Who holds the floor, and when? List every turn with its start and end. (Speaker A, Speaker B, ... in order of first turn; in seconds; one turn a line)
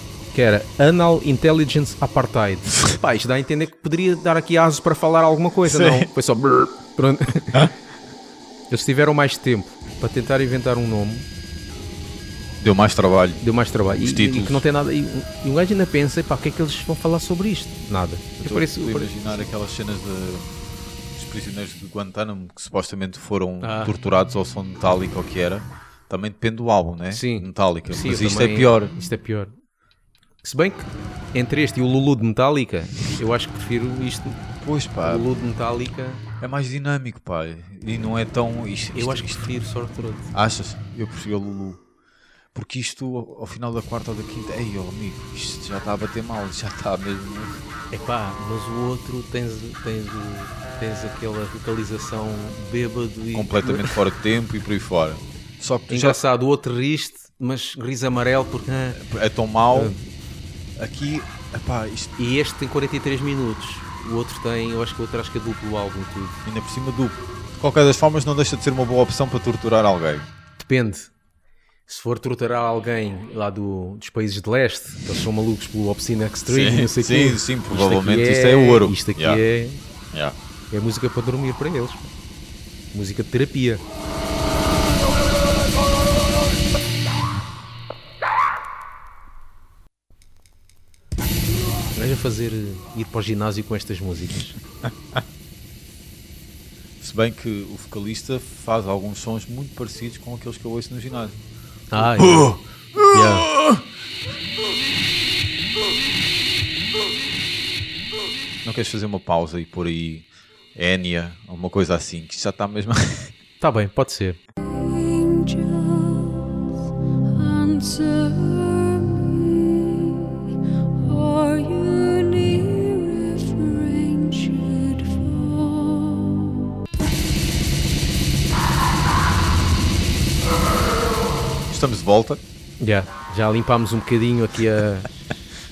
Speaker A: 0.3-7.7
Speaker B: 5.6-6.1
Speaker A: 8.7-11.3
Speaker B: 12.6-13.4
Speaker A: 13.4-19.4
Speaker B: 14.0-14.6
Speaker B: 18.4-20.5
Speaker B: 21.2-28.9
Speaker A: 23.6-23.9
Speaker A: 27.1-29.5
Speaker A: 30.4-34.5
Speaker B: 34.6-35.3
Speaker A: 35.0-36.2
Speaker B: 36.4-39.5
Speaker A: 38.9-40.3
Speaker B: 40.3-41.8
Speaker B: 42.5-47.6
Speaker A: 47.9-54.0
Speaker B: 53.3-56.2
Speaker A: 55.9-59.0
Speaker B: 59.0-60.0
Speaker A: 59.7-60.0
Speaker B: 60.8-62.1
Speaker A: 62.2-66.4
Speaker B: 66.5-70.3
Speaker A: 70.6-71.1
Speaker A: 71.9-79.8
Speaker B: 76.5-79.4
Speaker A: 80.7-82.1
Speaker A: 82.9-83.8
Speaker A: 91.9-94.6
Speaker B: 97.0-101.3
Speaker A: 101.9-102.5
Speaker B: 102.0-103.8
Speaker A: 103.1-103.5
Speaker B: 108.7-113.3
Speaker A: 113.6-114.4
Speaker C: 114.6-116.7
Speaker C: 117.3-120.5
Speaker C: 121.0-126.5
Speaker B: 131.7-132.4
Speaker A: 132.8-135.1